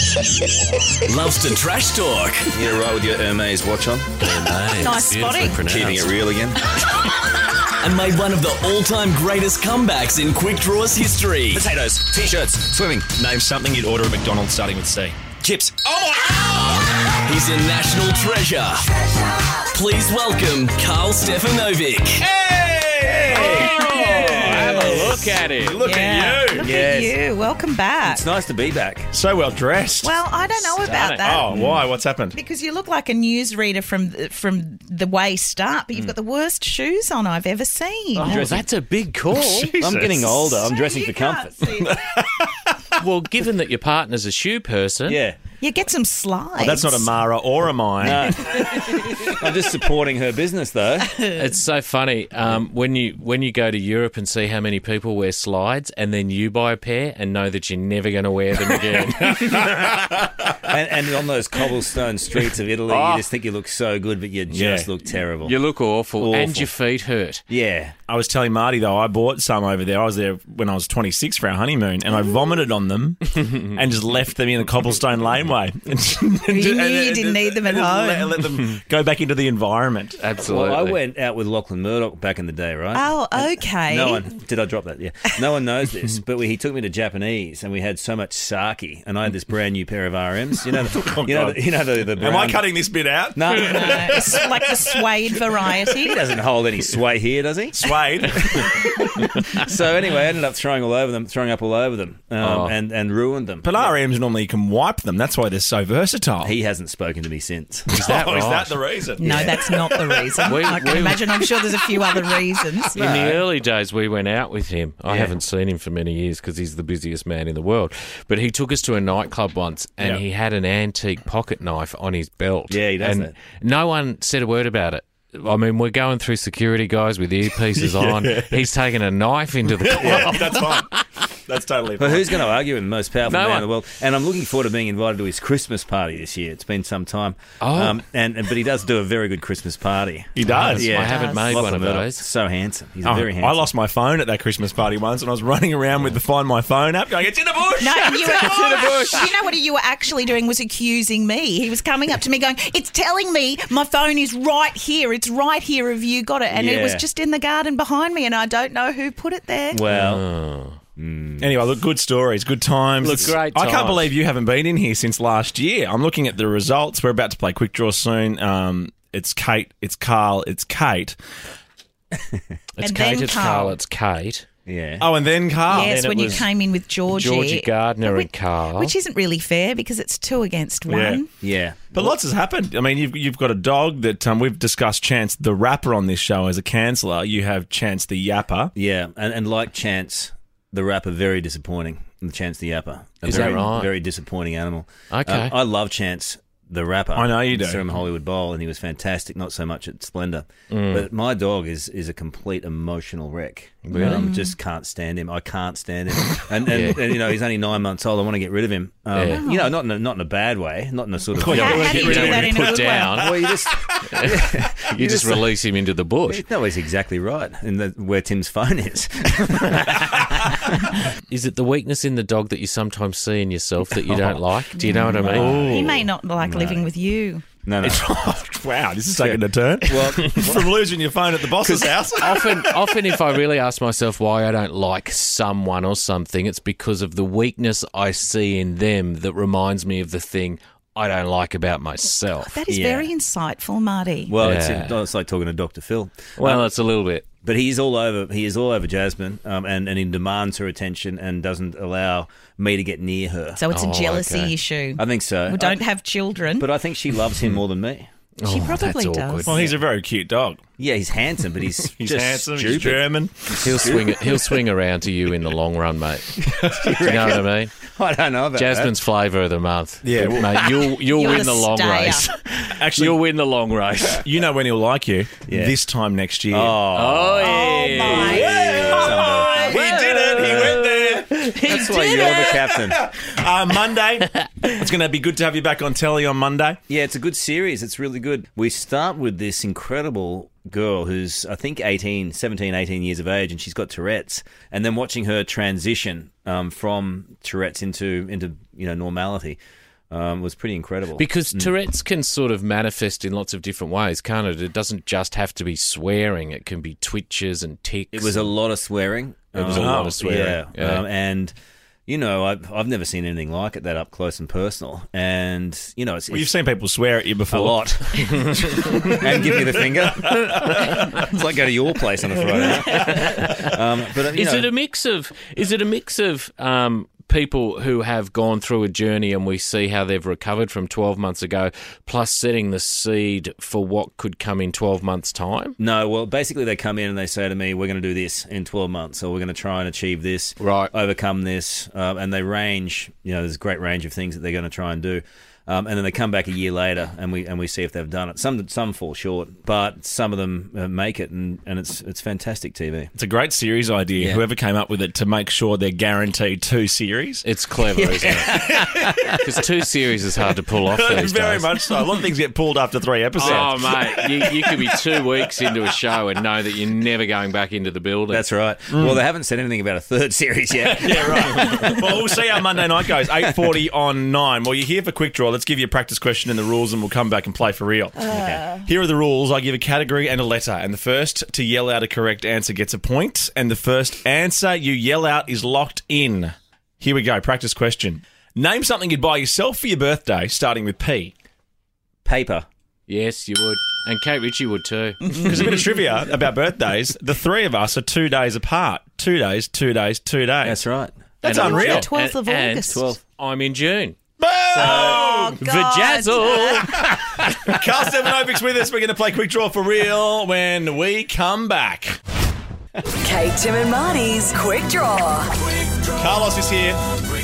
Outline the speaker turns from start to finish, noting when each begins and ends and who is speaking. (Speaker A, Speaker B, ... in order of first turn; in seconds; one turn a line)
Speaker A: 1.1-2.5
Speaker B: 2.5-4.1
Speaker C: 4.2-6.1
Speaker D: 4.7-5.6
Speaker B: 5.7-6.6
Speaker A: 7.8-11.7
Speaker B: 11.5-13.1
Speaker E: 13.1-16.8
Speaker A: 17.1-18.9
Speaker A: 19.5-22.2
Speaker E: 22.2-26.7
Speaker B: 23.0-25.1
Speaker C: 23.3-25.8
Speaker D: 25.8-28.2
Speaker B: 26.6-27.2
Speaker B: 28.0-29.1
Speaker E: 29.1-30.2
Speaker D: 30.0-31.5
Speaker C: 30.8-31.6
Speaker E: 30.8-32.4
Speaker D: 32.3-38.4
Speaker B: 38.1-38.7
Speaker C: 38.2-39.8
Speaker E: 39.3-40.7
Speaker B: 39.8-41.7
Speaker D: 40.6-42.0
Speaker E: 41.8-42.9
Speaker C: 43.0-45.2
Speaker B: 45.1-45.4
Speaker D: 45.6-47.1
Speaker E: 46.6-48.4
Speaker B: 48.0-51.2
Speaker C: 51.3-59.8
Speaker E: 58.7-60.2
Speaker B: 60.6-65.5
Speaker C: 62.9-63.3
Speaker E: 64.5-64.9
Speaker C: 65.4-67.4
Speaker B: 66.2-66.7
Speaker B: 67.5-67.9
Speaker E: 68.1-80.2
Speaker D: 76.5-78.4
Speaker C: 80.2-81.0
Speaker B: 80.4-92.6
Speaker D: 82.9-84.3
Speaker E: 90.7-91.6
Speaker E: 92.2-95.0
Speaker B: 93.3-94.2
Speaker D: 93.5-96.2
Speaker B: 95.9-98.8
Speaker E: 97.7-99.4
Speaker B: 99.4-103.9
Speaker C: 102.4-102.8
Speaker E: 103.6-106.5
Speaker B: 106.4-107.9
Speaker E: 107.9-112.8
Speaker C: 107.9-108.8
Speaker D: 109.2-113.0
Speaker C: 110.5-111.2
Speaker B: 113.0-113.4
Speaker C: 113.0-131.0
Speaker B: 115.1-115.3
Speaker B: 122.7-123.3
Speaker E: 127.7-128.7
Speaker E: 129.7-130.9
Speaker B: 130.0-130.3
Speaker E: 131.4-132.4
Speaker B: 132.0-143.7
Speaker C: 133.3-133.7
Speaker C: 137.6-138.0
Speaker E: 140.3-140.9
Speaker C: 140.5-142.3
Speaker D: 140.9-141.7
Speaker E: 143.0-149.3
Speaker D: 147.8-159.8
Speaker C: 148.5-149.1
Speaker B: 156.5-157.1
Speaker B: 159.7-160.2
Speaker C: 159.9-160.8
Speaker B: 160.9-161.5
Speaker E: 161.4-171.2
Speaker C: 163.0-164.1
Speaker C: 172.8-174.4
Speaker D: 172.8-173.8
Speaker B: 174.7-175.1
Speaker E: 175.0-176.4
Speaker C: 175.7-176.5
Speaker D: 175.7-181.3
Speaker C: 177.1-178.9
Speaker E: 180.9-181.2
Speaker B: 181.4-182.1
Speaker E: 181.9-188.7
Speaker B: 188.7-212.4
Speaker C: 193.2-193.9
Speaker E: 193.3-193.6
Speaker C: 195.1-195.5
Speaker E: 197.1-197.8
Speaker C: 200.7-201.1
Speaker C: 203.8-204.3
Speaker D: 203.9-204.6
Speaker C: 206.6-207.3
Speaker C: 209.1-209.4
Speaker D: 209.2-209.8
Speaker E: 211.3-214.1
Speaker D: 211.4-213.1
Speaker C: 211.5-213.4
Speaker B: 213.1-215.5
Speaker C: 214.1-216.4
Speaker B: 216.3-220.7
Speaker C: 221.1-225.7
Speaker E: 224.0-226.1
Speaker D: 224.7-227.4
Speaker B: 225.1-226.9
Speaker B: 227.6-228.0
Speaker E: 227.8-233.0
Speaker B: 229.2-230.8
Speaker B: 231.6-231.9
Speaker C: 232.2-242.6
Speaker D: 242.4-244.3
Speaker B: 242.7-243.1
Speaker B: 244.3-246.7
Speaker C: 244.4-245.0
Speaker C: 246.3-247.2
Speaker B: 247.4-253.6
Speaker D: 253.6-256.7
Speaker C: 253.7-254.6
Speaker B: 255.0-255.8
Speaker B: 256.6-258.1
Speaker C: 258.4-259.7
Speaker D: 258.4-259.7
Speaker E: 259.4-260.6
Speaker B: 260.8-264.5
Speaker E: 261.8-263.6
Speaker C: 263.5-266.4
Speaker B: 266.4-268.9
Speaker E: 266.4-267.1
Speaker C: 266.9-267.8
Speaker C: 268.5-274.2
Speaker E: 270.0-270.8
Speaker D: 271.1-272.3
Speaker E: 272.6-273.2
Speaker E: 274.1-276.8
Speaker B: 275.5-275.8
Speaker B: 276.5-279.8
Speaker C: 276.9-282.5
Speaker D: 277.4-278.6
Speaker E: 278.1-281.4
Speaker B: 280.4-280.9
Speaker B: 281.5-283.0
Speaker E: 282.1-286.8
Speaker B: 286.9-299.6
Speaker B: 300.1-301.7
Speaker C: 301.1-308.5
Speaker B: 308.1-311.5
Speaker C: 309.5-311.0
Speaker E: 309.7-310.2
Speaker B: 312.1-316.5
Speaker E: 316.3-321.2
Speaker B: 317.5-324.7
Speaker C: 322.5-323.7
Speaker C: 324.3-335.8
Speaker B: 335.8-353.1
Speaker C: 340.6-340.9
Speaker E: 353.1-357.4
Speaker B: 354.2-354.4
Speaker C: 357.4-361.9
Speaker B: 357.9-359.3
Speaker E: 358.5-359.1
Speaker E: 360.9-364.8
Speaker C: 363.4-368.4
Speaker B: 363.4-363.8
Speaker B: 368.3-372.0
Speaker E: 368.9-369.2
Speaker E: 370.8-391.3
Speaker B: 378.3-378.7
Speaker D: 378.3-378.9
Speaker B: 392.2-392.6
Speaker C: 393.1-395.7
Speaker E: 395.4-400.8
Speaker B: 400.6-401.1
Speaker E: 401.4-402.1
Speaker C: 401.4-404.1
Speaker D: 401.4-403.0
Speaker B: 402.9-403.2
Speaker E: 404.4-405.6
Speaker D: 404.7-407.1
Speaker B: 404.8-405.2
Speaker C: 405.6-407.4
Speaker E: 406.4-412.2
Speaker F: 413.2-415.5
Speaker E: 416.1-417.0